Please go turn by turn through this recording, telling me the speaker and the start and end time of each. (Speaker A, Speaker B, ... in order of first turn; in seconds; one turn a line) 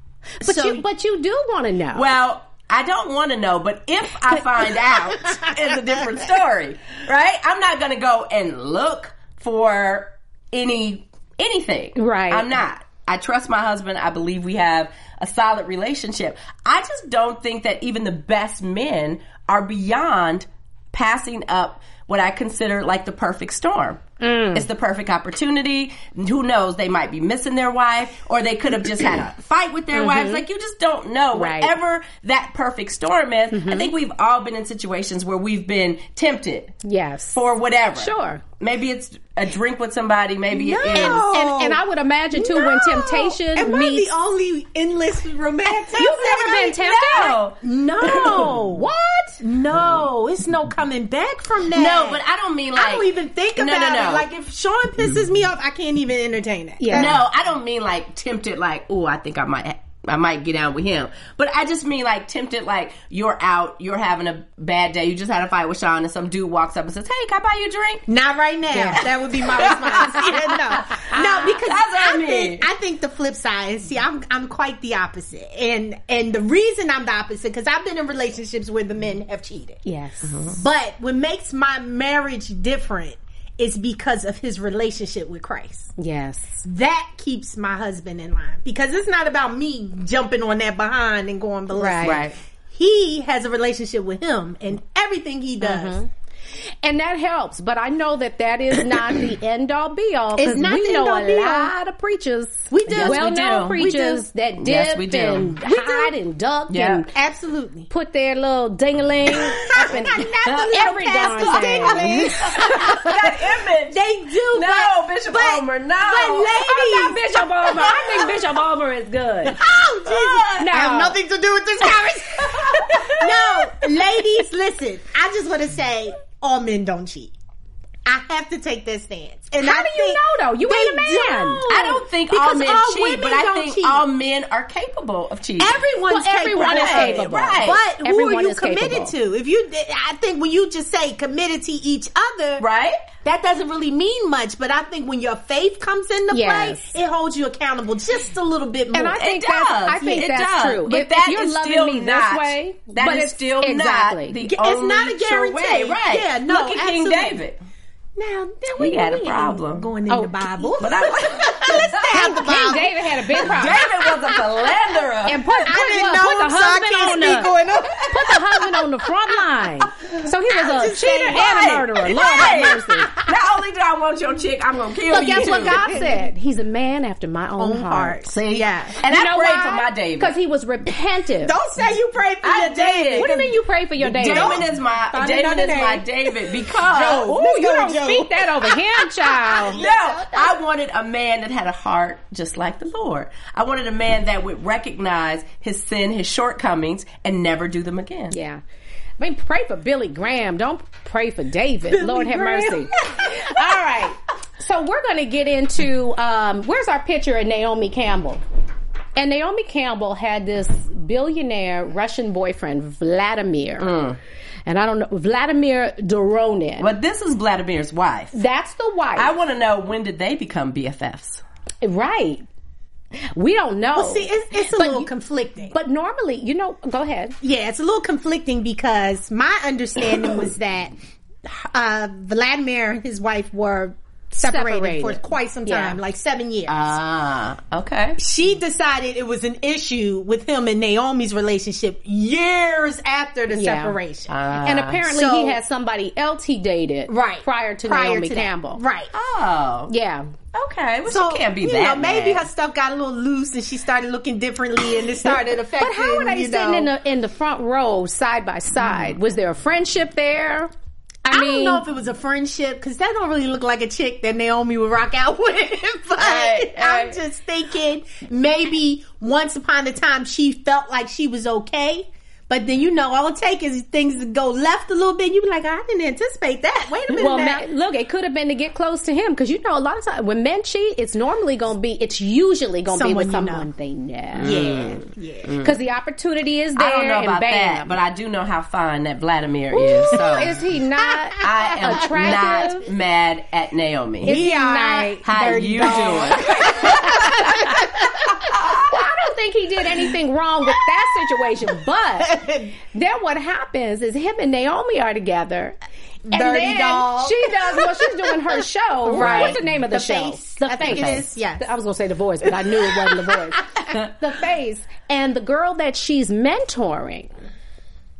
Speaker A: 0.4-2.1
Speaker B: 0.4-0.8
Speaker C: 1.9-24.0
Speaker A: 11.9-12.5
Speaker A: 24.2-24.7
Speaker C: 24.5-36.8
Speaker A: 29.9-30.4
Speaker A: 31.3-31.7
Speaker A: 33.5-33.9
Speaker A: 36.8-37.4
Speaker C: 37.3-41.2
Speaker A: 38.0-38.4
Speaker B: 40.6-41.8
Speaker A: 40.9-44.1
Speaker B: 42.3-46.8
Speaker A: 45.9-47.4
Speaker C: 46.8-48.6
Speaker B: 47.6-48.9
Speaker A: 48.0-49.4
Speaker B: 49.4-52.2
Speaker C: 51.7-54.2
Speaker B: 52.7-57.2
Speaker A: 56.8-57.2
Speaker C: 56.9-68.0
Speaker B: 68.1-79.8
Speaker A: 68.7-69.0
Speaker C: 68.9-72.7
Speaker A: 70.0-70.3
Speaker A: 71.0-71.6
Speaker A: 79.8-80.5
Speaker C: 80.3-80.5
Speaker B: 80.5-85.9
Speaker A: 86.0-86.6
Speaker B: 86.6-96.0
Speaker A: 91.7-92.3
Speaker C: 92.0-92.3
Speaker A: 95.6-96.1
Speaker A: 96.8-107.1
Speaker B: 100.4-101.7
Speaker B: 102.7-104.3
Speaker C: 102.9-103.8
Speaker C: 104.6-105.7
Speaker B: 105.7-106.0
Speaker C: 106.7-107.0
Speaker B: 107.1-107.9
Speaker A: 107.9-113.0
Speaker B: 109.3-113.3
Speaker C: 110.4-110.8
Speaker C: 111.4-116.5
Speaker B: 113.9-118.4
Speaker A: 116.4-119.6
Speaker B: 119.5-127.3
Speaker C: 120.1-120.7
Speaker A: 120.6-121.2
Speaker A: 121.8-123.6
Speaker C: 123.0-123.5
Speaker B: 128.1-134.0
Speaker A: 129.6-132.0
Speaker C: 131.7-135.8
Speaker B: 135.6-142.6
Speaker A: 136.1-139.1
Speaker C: 136.5-137.8
Speaker C: 142.6-143.0
Speaker B: 143.2-149.2
Speaker A: 146.3-147.0
Speaker A: 148.9-154.5
Speaker C: 149.2-157.6
Speaker B: 154.5-157.4
Speaker B: 158.2-164.7
Speaker C: 158.8-159.9
Speaker A: 160.1-160.7
Speaker C: 160.8-161.9
Speaker A: 162.0-163.8
Speaker C: 163.4-165.4
Speaker A: 165.2-167.5
Speaker B: 165.5-168.8
Speaker A: 168.1-173.2
Speaker B: 170.1-173.2
Speaker C: 171.3-175.9
Speaker A: 175.1-178.2
Speaker B: 175.3-176.2
Speaker B: 177.6-179.0
Speaker C: 178.3-180.3
Speaker A: 179.0-181.6
Speaker B: 181.4-183.5
Speaker C: 182.4-183.3
Speaker A: 183.1-184.6
Speaker C: 184.0-187.3
Speaker B: 184.1-190.6
Speaker A: 186.7-189.8
Speaker C: 189.7-198.3
Speaker A: 198.3-198.6
Speaker A: 199.2-208.4
Speaker B: 201.9-203.8
Speaker A: 209.2-213.9
Speaker C: 213.8-214.2
Speaker A: 214.7-216.9
Speaker C: 216.8-218.4
Speaker A: 218.3-219.3
Speaker C: 219.2-221.4
Speaker A: 221.8-222.4
Speaker A: 223.3-225.1
Speaker B: 223.9-225.7
Speaker A: 225.7-227.4
Speaker B: 227.4-230.9
Speaker B: 231.4-236.8
Speaker A: 234.4-236.0
Speaker C: 236.7-238.2
Speaker B: 238.2-244.3
Speaker A: 243.5-244.0
Speaker C: 244.3-245.0
Speaker A: 244.6-248.8
Speaker B: 245.0-245.6
Speaker B: 247.1-249.1
Speaker C: 249.1-249.9
Speaker A: 249.9-250.3
Speaker C: 250.5-252.4
Speaker B: 251.1-256.9
Speaker A: 255.2-260.7
Speaker A: 261.2-261.8
Speaker B: 261.3-277.6
Speaker C: 266.2-267.2
Speaker A: 277.1-284.9
Speaker B: 282.9-283.7
Speaker C: 284.4-285.7
Speaker B: 284.4-285.5
Speaker A: 285.6-288.0
Speaker C: 286.8-290.6
Speaker A: 289.7-292.9
Speaker C: 291.4-294.4
Speaker A: 294.2-295.2
Speaker B: 294.2-298.9
Speaker C: 295.2-297.7
Speaker A: 295.8-297.9
Speaker A: 298.8-305.8
Speaker B: 302.2-302.7
Speaker B: 306.3-308.4
Speaker A: 306.3-317.3
Speaker B: 309.0-311.7
Speaker C: 309.1-309.6
Speaker C: 310.9-311.2
Speaker B: 312.6-313.3